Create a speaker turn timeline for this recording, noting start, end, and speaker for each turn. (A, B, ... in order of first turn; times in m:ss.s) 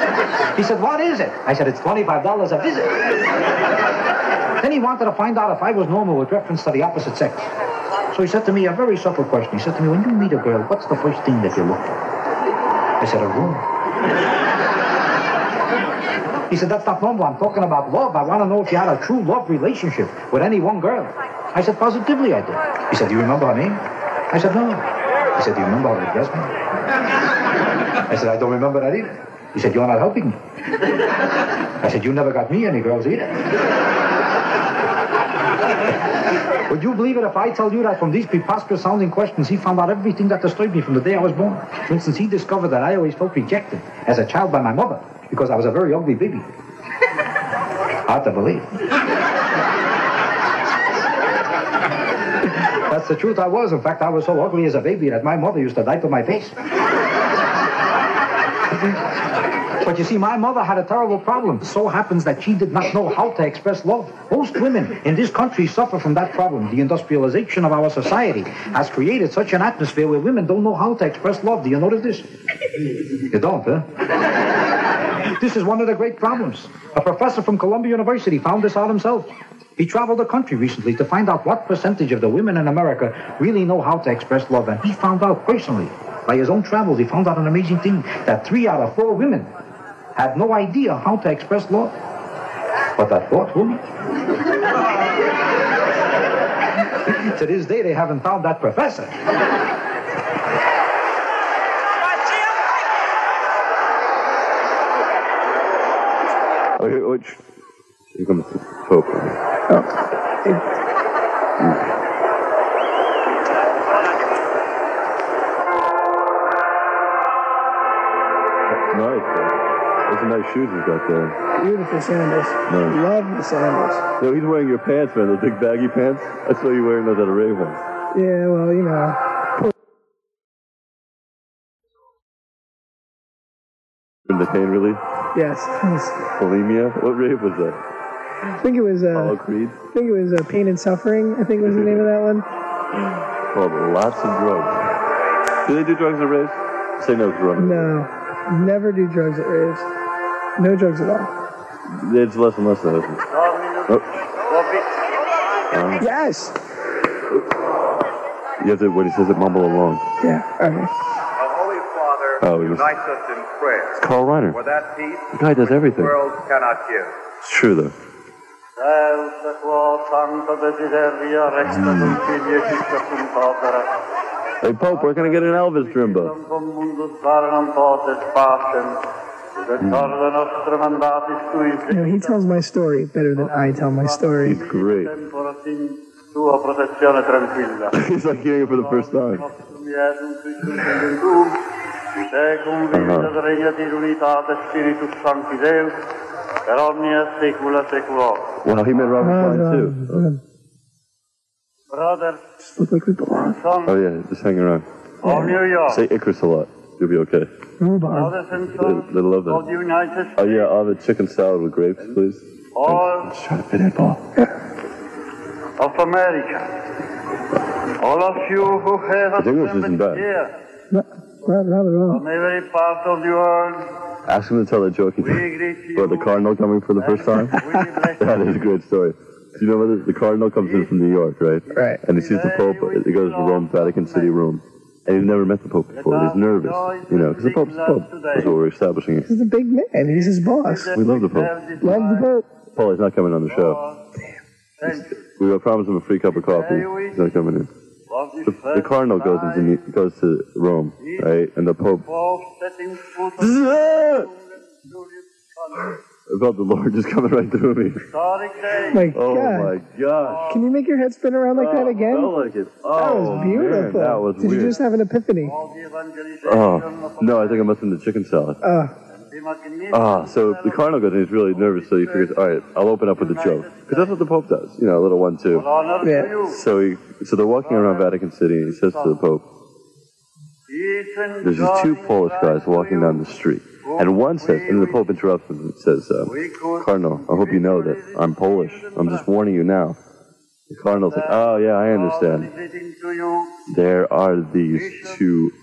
0:00.6-0:03.0 A
0:04.6-0:07.5 A
0:08.1-0:12.0 A
0:13.0-0:13.6 A
0:16.5-0:24.8 A
0:25.4-0:26.5 A
0:28.1-0:30.4 A
0:31.8-0:33.4 A
0:36.7-0:46.5 A
0:48.1-0:48.7 A
0:52.9-0:56.5 A
0:59.8-1:12.3 A
1:13.3-1:13.9 A
1:15.3-1:29.5 A
1:30.2-1:31.9 A
1:33.0-1:33.8 A
1:37.1-1:39.1 A
1:46.8-1:47.4 B
1:48.2-1:49.4 B
1:49.7-1:50.7 C
1:51.6-1:51.9 B
1:58.7-2:01.4 B
2:01.6-2:04.0 C
2:02.7-2:03.0 B
2:04.2-2:07.8 B
2:08.1-2:09.7 C
2:14.3-2:15.0 B
2:15.3-2:16.2 C
2:16.2-2:17.8 B
2:18.6-2:22.5 C
2:19.1-2:19.8 B
2:21.6-2:22.0 B
2:23.5-2:24.8 B
2:25.6-2:27.9 B
2:27.6-2:29.9 C
2:30.6-2:31.3 C
2:31.9-2:33.2 B
2:33.3-2:34.9 D
2:35.7-2:36.0 B
2:36.0-2:36.6 C
2:38.6-2:40.0 B
2:40.2-2:40.9 C
2:41.4-2:44.0 E
2:42.4-2:42.9 B
2:44.0-2:44.6 B
2:44.5-2:47.1 E
2:45.3-2:46.2 B
2:47.4-2:47.9 B
2:48.8-2:53.9 D
2:51.7-2:52.2 B
2:54.6-2:56.3 B
2:54.9-2:59.0 D
2:59.6-3:02.4 D
2:59.8-3:00.2 B
3:01.9-3:04.6 C
3:03.4-3:08.0 D
3:04.4-3:05.1 B
3:07.9-3:09.5 B
3:08.5-3:11.6 D
3:12.2-3:16.0 D
3:12.9-3:13.4 B
3:16.7-3:18.6 D
3:18.6-3:20.2 B
3:19.2-3:20.4 C
3:21.9-3:22.4 D
3:22.6-3:23.6 C
3:23.4-3:23.9 D
3:23.8-3:24.8 B
3:25.2-3:25.6 C
3:25.2-3:26.0 D
3:25.9-3:27.5 B
3:27.8-3:28.4 C
3:28.1-3:30.7 D
3:28.8-3:29.6 B
3:30.4-3:34.2 B
3:32.8-3:33.3 D
3:35.8-3:36.7 D
3:38.0-3:40.5 D
3:39.4-3:40.3 B
3:40.9-3:42.2 C
3:42.1-3:43.9 D
3:44.3-3:47.6 B
3:45.2-3:46.4 D
3:47.0-3:48.5 D
3:48.2-3:59.3 B
3:50.6-3:50.9 D
3:51.7-3:52.0 C
3:52.1-3:54.4 D
3:55.9-3:58.6 D
3:59.2-4:00.9 C
4:00.1-4:02.3 D
4:01.0-4:01.6 B
4:01.8-4:02.5 C
4:02.7-4:03.8 B
4:03.5-4:04.0 D
4:04.8-4:05.2 D
4:05.4-4:07.7 B
4:06.3-4:07.2 D
4:08.1-4:09.8 D
4:08.4-4:12.1 B
4:11.0-4:11.3 D
4:12.1-4:16.0 D
4:13.4-4:14.3 B
4:16.3-4:18.0 B
4:18.1-4:19.1 D
4:18.9-4:19.8 C
4:19.1-4:20.5 B
4:20.1-4:20.7 D
4:20.5-4:22.4 C
4:21.6-4:24.8 B
4:22.9-4:25.6 C
4:25.4-4:27.7 D
4:26.4-4:28.6 B
4:28.6-4:29.0 C
4:29.2-4:32.5 D
4:29.9-4:35.7 B
4:33.1-4:34.2 D
4:35.5-4:36.6 D
4:36.0-4:36.4 C
4:36.4-4:39.4 B
4:37.6-4:39.2 D
4:40.7-4:43.2 D
4:41.4-4:50.0 B
4:43.8-4:45.0 D
4:46.3-4:49.3 D
4:50.7-4:52.5 B
4:51.1-4:53.6 D
4:53.7-4:55.5 B
4:54.7-4:55.2 D